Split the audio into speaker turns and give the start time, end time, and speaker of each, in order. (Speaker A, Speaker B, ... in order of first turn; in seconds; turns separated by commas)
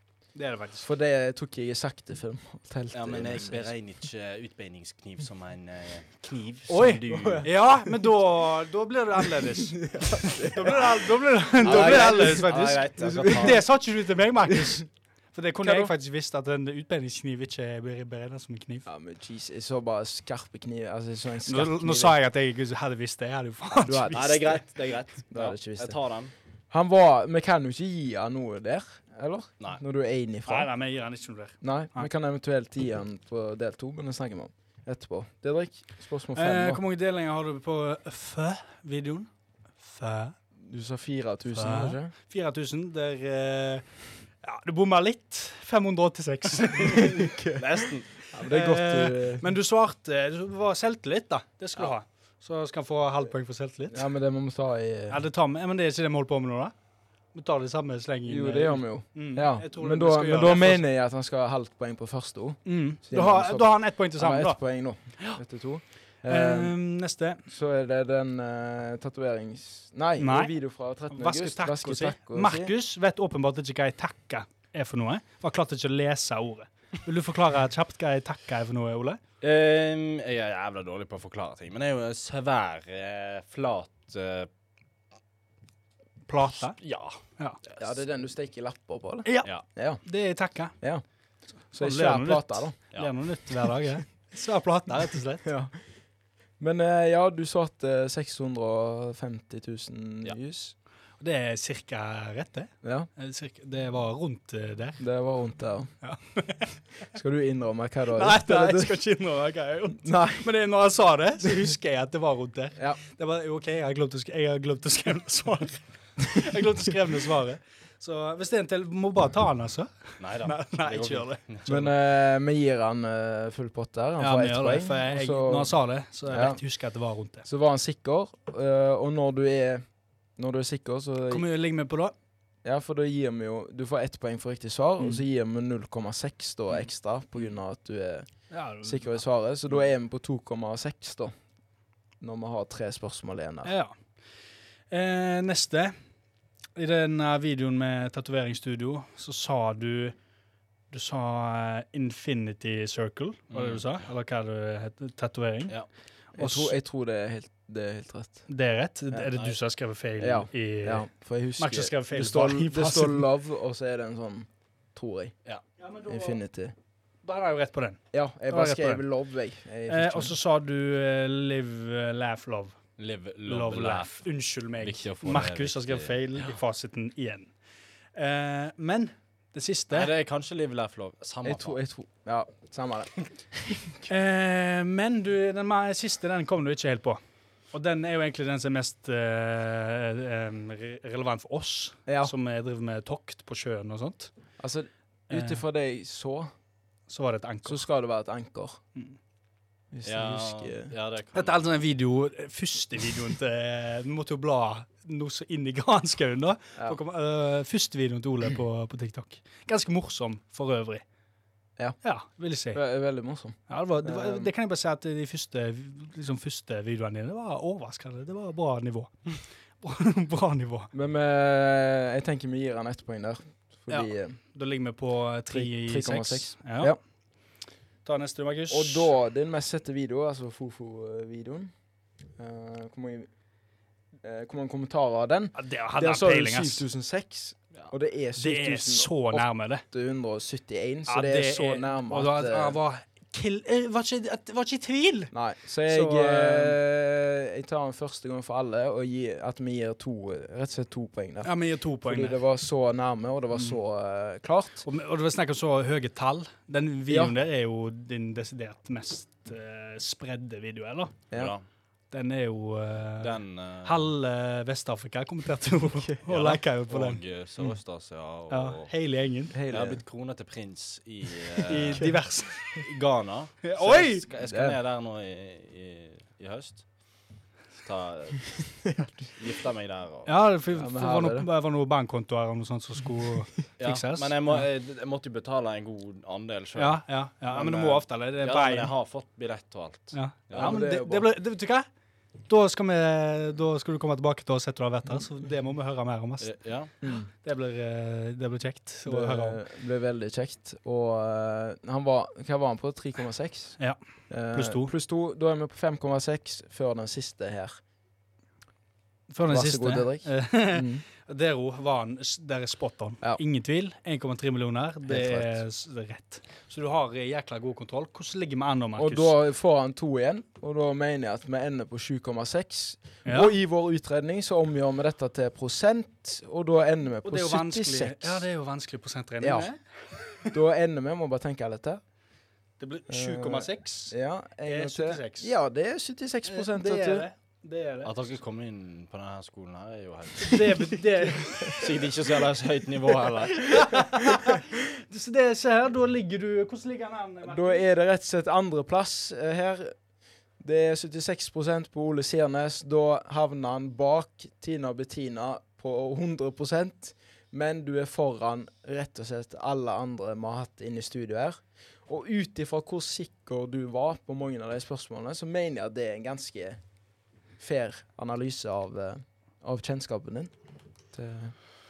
Speaker A: 0.3-0.9, Speaker B: 0.8-3.7, Speaker C: 2.9-7.5, Speaker A: 6.7-18.9, Speaker B: 7.1-7.9, Speaker B: 9.4-11.0, Speaker B: 11.6-13.6, Speaker C: 11.6-13.6, Speaker B: 14.5-14.8, Speaker B: 15.6-15.9, Speaker B: 18.9-22.2, Speaker A: 21.5-24.5, Speaker B: 23.8-24.6, Speaker C: 24.1-26.3, Speaker B: 25.3-26.0, Speaker B: 26.7-30.7, Speaker A: 30.5-32.1, Speaker B: 31.6-36.8, Speaker A: 36.4-40.4, Speaker B: 40.6-42.1, Speaker A: 41.5-43.9, Speaker A: 44.4-47.3, Speaker B: 46.8-47.6, Speaker C: 47.6-48.1, Speaker B: 48.3-49.5, Speaker A: 48.4-54.1, Speaker B: 53.9-55.2, Speaker A: 55.1-56.7, Speaker A: 57.3-60.8, Speaker B: 58.3-66.8, Speaker A: 62.6-64.6, Speaker A: 66.3-67.4, Speaker B: 67.5-72.7, Speaker A: 70.2-70.5, Speaker A: 71.1-79.2, Speaker C: 79.4-84.5, Speaker A: 86.3-86.8, Speaker C: 86.7-87.9, Speaker B: 87.8-90.0, Speaker A: 89.2-89.5, Speaker A: 90.0-90.7, Speaker B: 91.7-92.8, Speaker A: 91.7-95.5, Speaker B: 95.4-95.7, Speaker B: 96.6-100.7, Speaker A: 101.2-105.0, Speaker B: 102.8-103.1, Speaker B: 105.0-105.9, Speaker A: 106.0-106.8, Speaker B: 107.1-109.0, Speaker A: 108.1-121.4, Speaker B: 110.0-110.5, Speaker C: 120.2-121.9, Speaker B: 121.7-125.7, Speaker A: 124.2-127.5, Speaker B: 126.3-126.6, Speaker B: 127.5-129.8, Speaker B: 130.4-131.5, Speaker A: 131.3-132.1, Speaker B: 132.6-138.3, Speaker A: 138.5-139.2, Speaker B: 138.8-141.3, Speaker B: 142.2-143.7, Speaker A: 143.7-144.0, Speaker A: 144.9-146.0, Speaker A: 146.8-150.2, Speaker A: 150.9-155.8, Speaker C: 153.5-153.9, Speaker A: 156.4-156.8, Speaker B: 156.4-158.5, Speaker A: 158.5-163.3, Speaker B: 160.2-165.3, Speaker A: 165.8-166.4, Speaker B: 166.1-166.8, Speaker A: 167.2-169.0, Speaker B: 168.1-170.3, Speaker A: 169.9-172.8, Speaker C: 173.0-174.2, Speaker A: 173.5-177.5, Speaker C: 174.8-176.6, Speaker A: 178.2-180.1, Speaker C: 179.9-181.8, Speaker B: 181.4-184.1, Speaker A: 184.1-187.2, Speaker A: 187.7-194.3, Speaker B: 192.1-192.3, Speaker B: 194.6-196.5, Speaker A: 195.3-195.6, Speaker A: 197.1-197.8, Speaker B: 197.7-198.8, Speaker B: 199.9-200.9, Speaker C: 200.0-201.6, Speaker A: 201.3-211.0, Speaker A: 212.0-212.8, Speaker B: 212.7-214.5, Speaker A: 213.7-219.3, Speaker A: 219.8-220.9, Speaker B: 220.9-224.4, Speaker A: 223.9-226.9, Speaker B: 225.5-227.0, Speaker A: 228.1-229.1, Speaker B: 228.7-231.7, Speaker B: 232.4-233.3, Speaker B: 234.2-242.8, Speaker A: 235.6-236.8, Speaker A: 238.4-239.8, Speaker A: 241.1-245.3, Speaker B: 245.3-254.8, Speaker A: 245.9-246.8, Speaker A: 251.4-252.4, Speaker A: 254.8-261.1, Speaker B: 257.1-257.4, Speaker C: 261.3-261.6, Speaker A: 262.1-267.2, Speaker C: 263.2-264.1, Speaker C: 266.3-268.9, Speaker A: 268.5-269.6, Speaker B: 269.5-270.0, Speaker C: 269.7-272.2, Speaker A: 271.7-272.7, Speaker C: 272.8-276.9, Speaker A: 273.6-274.2, Speaker B: 274.4-274.8, Speaker C: 277.8-278.8, Speaker B: 278.9-279.2, Speaker C: 279.4-280.3, Speaker A: 280.3-284.6, Speaker B: 280.7-281.5, Speaker C: 283.8-290.8, Speaker A: 286.8-288.9, Speaker A: 290.1-291.9, Speaker B: 290.5-291.3, Speaker A: 292.5-296.5, Speaker C: 296.4-296.9, Speaker B: 297.0-297.3, Speaker A: 297.4-299.6, Speaker B: 299.1-307.8, Speaker A: 304.5-304.9, Speaker A: 309.3-319.4, Speaker B: 309.5-311.0, Speaker B: 315.1-315.6, Speaker B: 319.0-328.5, Speaker A: 323.3-323.5, Speaker A: 327.2-329.8, Speaker B: 329.4-329.7, Speaker B: 330.5-332.0, Speaker A: 332.8-335.5, Speaker B: 333.1-337.3, Speaker A: 336.5-338.1, Speaker C: 338.0-340.7, Speaker A: 340.4-341.8, Speaker C: 341.6-343.8, Speaker A: 343.5-347.8, Speaker B: 347.4-349.9, Speaker B: 350.6-366.8, Speaker B: 367.6-370.5, Speaker B: 371.1-371.6